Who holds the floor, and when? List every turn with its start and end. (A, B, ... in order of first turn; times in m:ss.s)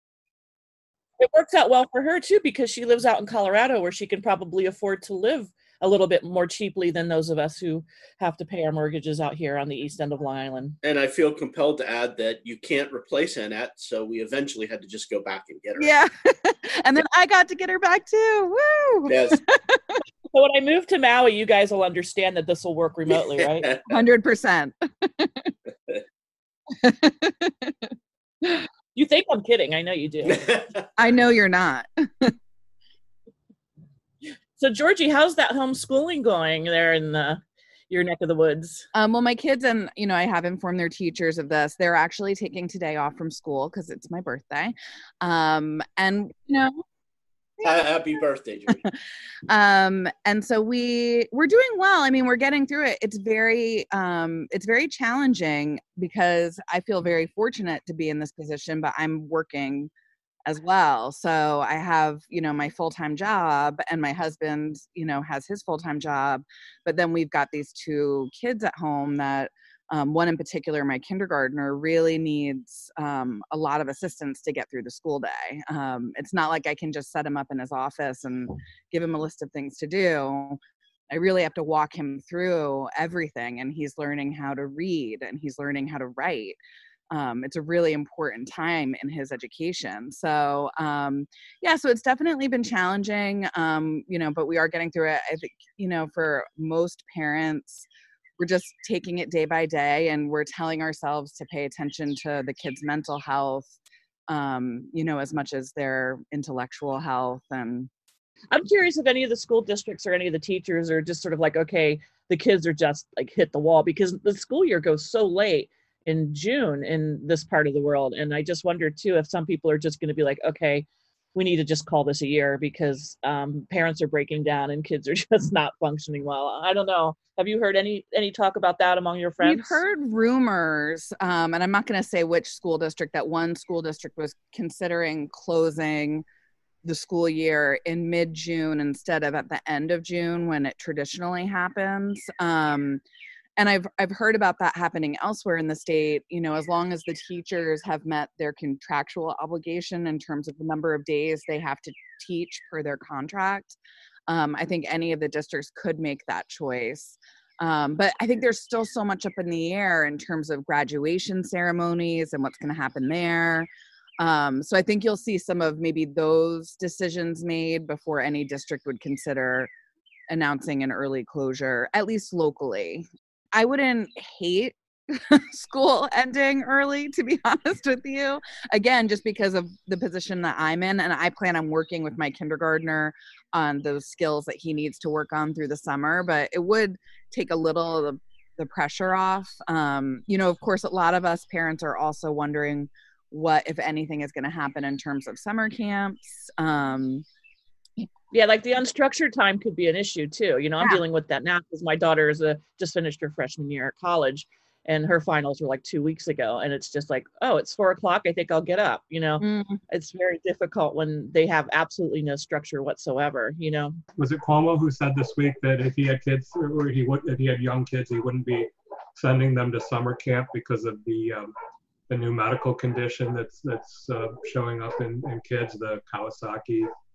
0:01.2-0:10.8 A
0:10.8-0:15.9 B
0:15.8-0:20.0 C
0:19.1-0:19.4 B
0:20.3-0:23.7 A
0:23.9-0:25.5 C
0:26.7-0:28.6 C
0:28.9-0:30.4 A
0:30.3-0:30.8 B
0:31.0-0:32.3 C
0:34.6-0:38.9 A
0:38.9-0:46.8 C
0:47.6-0:48.8 B
0:49.5-0:59.9 C
1:00.4-1:20.6 C
1:21.1-1:26.6 C
1:27.1-1:37.8 C
1:38.4-1:43.7 C
1:44.3-1:47.9 C
1:48.5-2:09.8 A
2:09.4-2:16.2 C
2:16.8-2:23.0 C
2:23.6-2:33.8 C
2:34.3-2:43.7 C
2:44.2-2:49.7 C
2:50.3-3:17.2 C
3:18.3-3:34.0 A
3:29.4-3:29.8 C
3:34.2-3:41.5 D
3:42.1-3:46.9 D